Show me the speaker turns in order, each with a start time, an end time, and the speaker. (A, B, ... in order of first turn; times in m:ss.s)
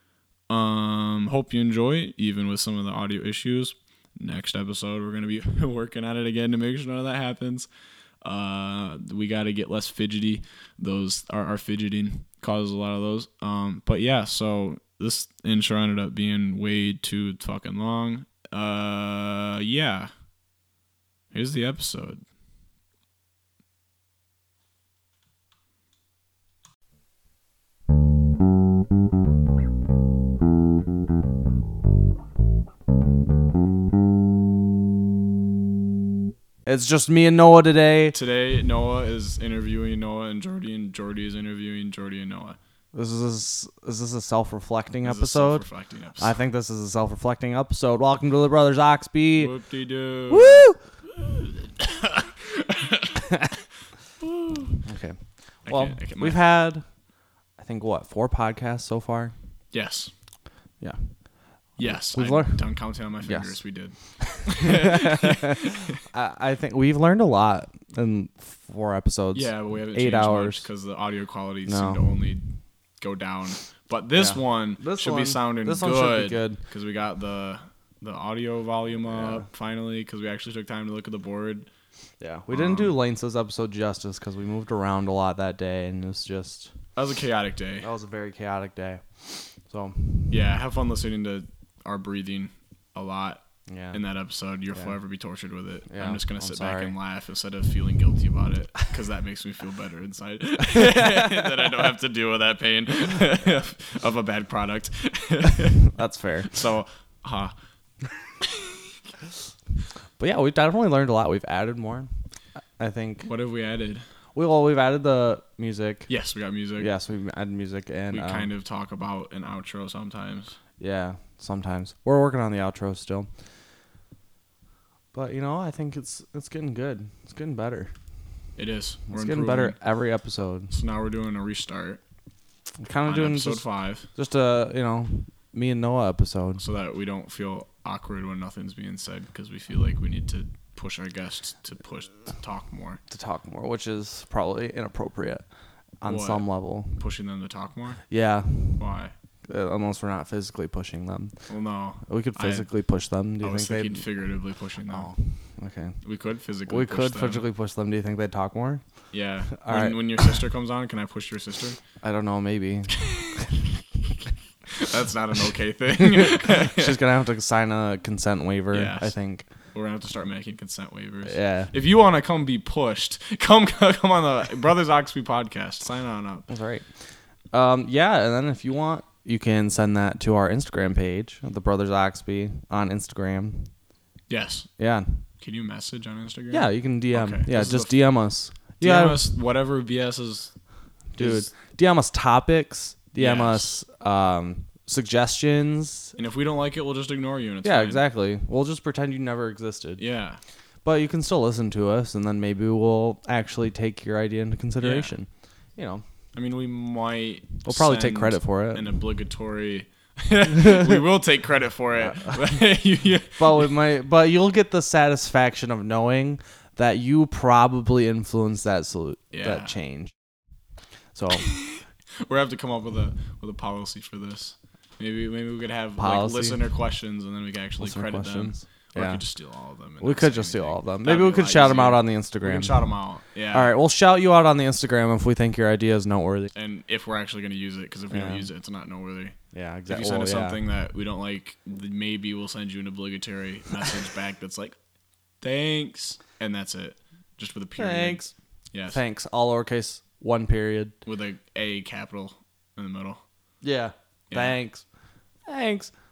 0:00.5-0:07.7 A
0:08.2-0:20.1 A
0:21.3-0:22.2 A
0:36.7-0:38.2 B
0:38.1-0:42.6 A
0:42.9-0:45.6 B
0:45.0-0:46.4 A
0:46.2-0:49.5 B
0:49.4-0:53.3 A
0:50.3-0:50.8 B
0:53.1-0:53.6 B
0:54.2-0:54.8 A
0:54.8-0:56.8 B
0:55.7-0:56.4 A
0:57.6-0:59.3 B
0:59.7-1:00.1 A
1:01.8-1:06.0 A
1:01.8-1:02.6 B
1:03.2-1:03.6 B
1:04.2-1:10.6 B
1:09.3-1:12.4 A
1:11.7-1:12.2 B
1:13.0-1:21.7 A
1:14.2-1:16.6 B
1:19.1-1:19.4 B
1:22.2-1:26.7 B
1:22.5-1:23.0 A
1:27.0-1:27.9 A
1:27.8-1:30.3 B
1:30.3-1:45.8 A
1:33.7-1:34.0 B
1:35.9-1:37.0 B
1:40.7-1:41.7 B
1:45.9-1:46.5 B
1:46.5-1:47.5 A
1:48.4-1:48.8 A
1:50.2-1:52.1 B
1:52.8-1:53.3 B
1:53.2-1:54.0 A
1:54.4-1:56.1 B
1:56.1-1:56.9 A
1:56.8-1:58.5 B
1:58.1-2:00.6 A
2:00.8-2:03.3 B
2:05.1-2:07.9 B
2:08.6-2:09.8 A
2:09.1-2:10.7 B
2:10.7-2:12.0 A
2:12.8-2:16.6 B
2:13.1-2:14.1 A
2:16.6-2:23.0 A
2:23.1-2:25.4 B
2:26.0-2:27.0 B
2:26.1-2:28.0 A
2:28.1-2:28.8 B
2:28.8-2:29.1 A
2:29.5-2:31.4 B
2:31.5-2:32.7 A
2:32.0-2:34.1 B
2:33.4-2:35.1 A
2:34.9-2:36.0 B
2:36.0-2:37.4 A
2:36.7-2:38.8 B
2:39.1-2:41.8 A
2:39.5-2:40.4 B
2:42.0-2:43.6 B
2:42.9-2:43.6 A
2:44.7-2:47.0 A
2:46.0-2:49.5 B
2:48.7-2:49.1 A
2:49.7-2:56.5 A
2:51.3-2:51.7 B
2:56.5-2:56.9 B
2:57.5-3:03.7 B
3:04.3-3:04.7 A
3:04.8-3:05.2 B
3:05.4-3:08.0 A
3:06.5-3:09.3 B
3:08.8-3:10.5 A
3:11.2-3:16.2 B
3:11.2-3:11.5 A
3:13.2-3:13.8 A
3:16.2-3:18.0 A
3:17.6-3:20.0 B
3:20.0-3:20.4 A
3:20.8-3:26.0 B
3:24.8-3:25.1 A
3:26.3-3:33.7 A
3:27.6-3:29.0 B
3:30.7-3:31.0 B
3:32.0-3:32.6 B
3:33.4-3:40.1 B
3:39.3-3:39.8 A
3:41.2-3:41.5 B
3:41.3-3:53.7 A
3:46.0-3:46.6 B
3:47.8-3:49.2 B
3:50.0-3:52.9 B
3:53.5-3:56.5 B
3:56.6-3:59.4 A
3:58.1-3:58.5 B
3:59.5-4:00.6 B
3:59.9-4:04.8 A
4:05.4-4:09.0 A
4:07.8-4:08.3 B
4:08.9-4:11.0 B
4:11.0-4:13.2 A
4:13.6-4:14.8 B
4:14.3-4:14.6 A
4:15.5-4:15.9 B